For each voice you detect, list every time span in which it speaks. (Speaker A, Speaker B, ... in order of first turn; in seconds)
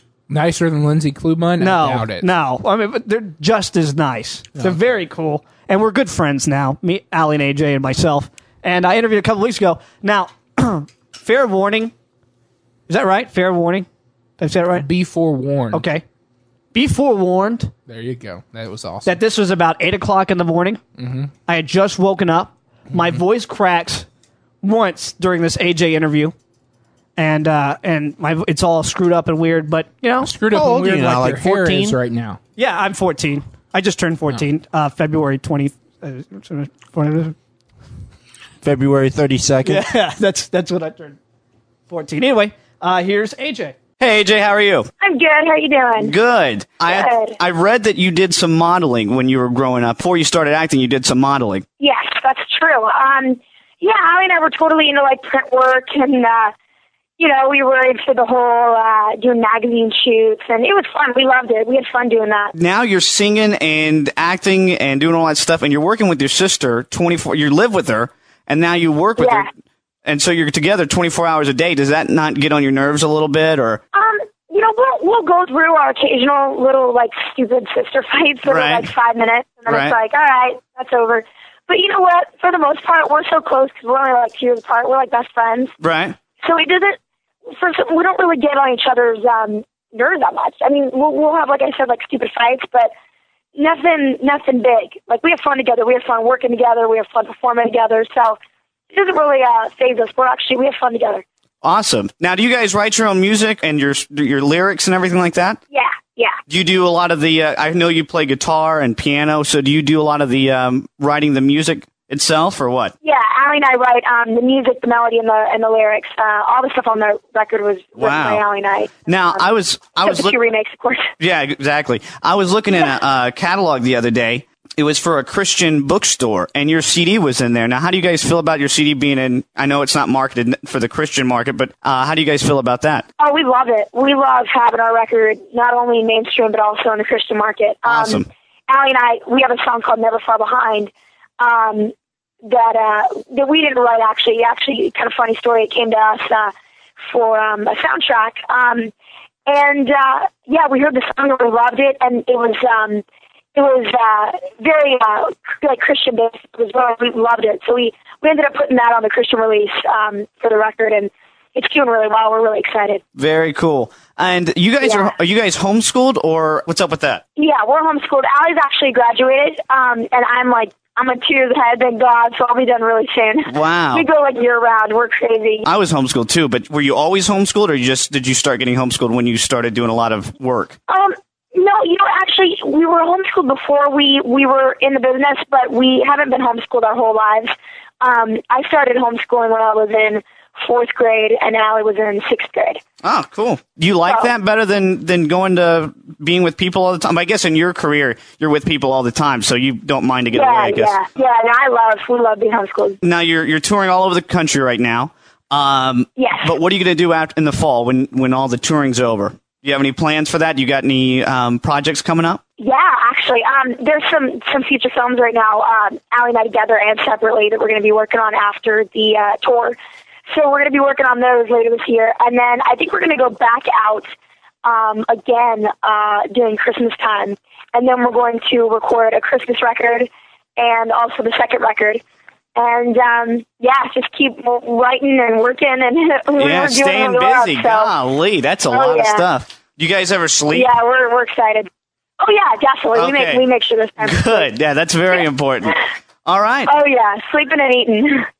Speaker A: 0.3-2.3, 4.5-4.8, 14.7-15.9, 17.9-19.2, 21.0-21.3, 30.2-32.4
Speaker B: 1.6-11.9, 12.9-13.9, 14.4-14.8, 15.7-16.0, 16.7-17.7, 19.1-20.8, 21.4-24.1, 24.6-26.3, 27.2-30.3, 32.5-37.3, 39.6-41.2, 41.9-43.9
Speaker C: 30.5-32.0, 38.6-39.8
Speaker D: 44.0-44.9, 46.0-51.6, 62.5-69.5, 70.0-73.8, 78.5-78.9, 79.7-80.0, 85.8-86.2, 101.6-105.6, 106.5-112.9, 118.0-118.4, 119.1-120.4, 121.2-133.1, 137.8-138.2, 163.2-167.2, 173.5-174.1, 175.6-180.8, 193.0-201.0, 203.0-212.4, 236.4-240.7, 242.9-243.4, 244.0-246.7
Speaker E: 45.0-46.1, 46.9-47.4, 51.8-56.5, 57.2-62.5, 69.2-69.5, 73.9-85.7, 86.4-87.0, 87.5-92.9, 93.5-98.4, 98.9-101.2, 105.7-106.4, 113.0-121.1, 133.2-141.9, 142.4-146.5, 147.1-148.9, 149.5-153.0, 153.5-163.0, 164.8-165.1, 167.3-175.7, 180.9-192.8, 194.0-194.3, 200.3-203.0, 206.2-206.5, 212.6-219.8, 220.3-224.1, 224.6-232.0, 232.6-237.9, 238.7-239.2, 240.5-241.7, 242.2-244.5, 246.7-248.2